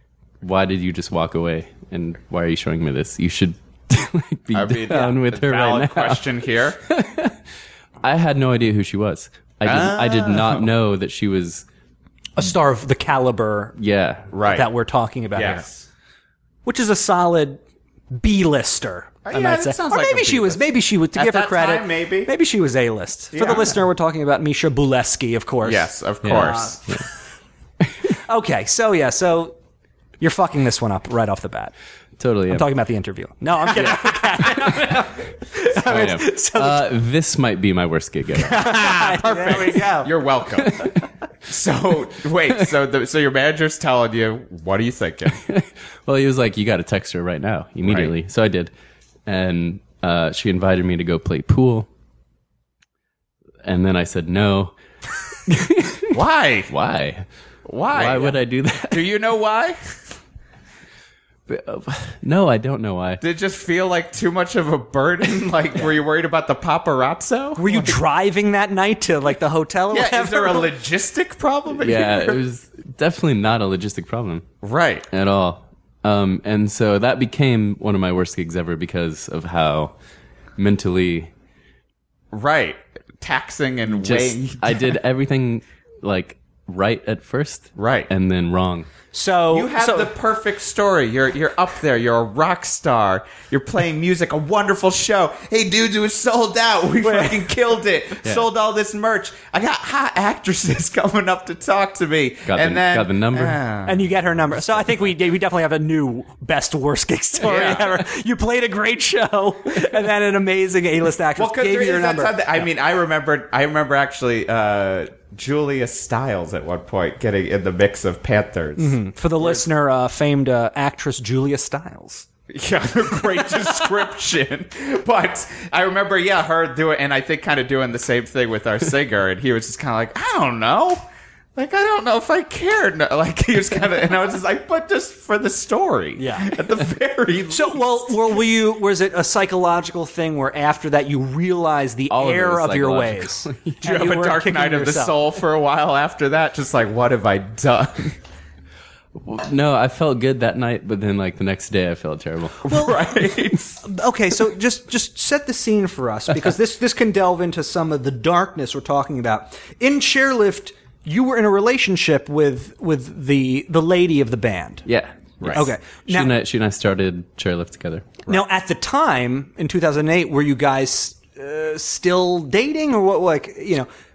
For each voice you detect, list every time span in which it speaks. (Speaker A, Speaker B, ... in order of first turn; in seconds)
Speaker A: 0.4-7.4, 8.0-11.6, 13.8-14.3, 26.2-27.1, 32.2-32.7, 33.9-34.9, 35.8-38.8, 40.6-40.9, 45.3-48.7, 49.2-51.9, 53.6-54.7, 55.3-56.2, 56.7-57.2, 57.9-59.1, 61.5-63.2, 71.8-74.5, 75.1-79.9, 80.6-81.3, 83.9-88.9, 102.5-103.6, 142.1-143.8, 149.2-152.7, 164.8-168.2
Speaker B: 4.5-6.8, 9.6-10.7, 14.3-14.7, 15.3-15.9, 19.2-22.3, 23.3-23.7, 25.6-26.8, 38.4-40.9, 41.4-45.4, 47.8-48.1, 56.1-56.7, 57.6-58.3, 58.9-60.0, 63.2-68.0, 69.9-72.4, 74.6-75.1, 82.3-85.0, 87.8-88.1, 89.5-104.0, 107.4-107.9, 111.3-119.6, 122.5-131.0, 131.6-138.2, 143.8-148.2, 152.7-153.8, 165.4-165.7
Speaker C: 12.4-13.8, 14.4-15.6, 16.6-26.9, 28.1-29.6, 30.2-31.7, 32.5-36.9, 38.4-40.1, 67.6-70.7, 89.1-90.1, 97.0-97.4, 103.8-112.4, 118.8-122.3, 136.2-136.5, 137.5-145.2, 153.8-164.8, 165.5-166.3, 168.3-173.9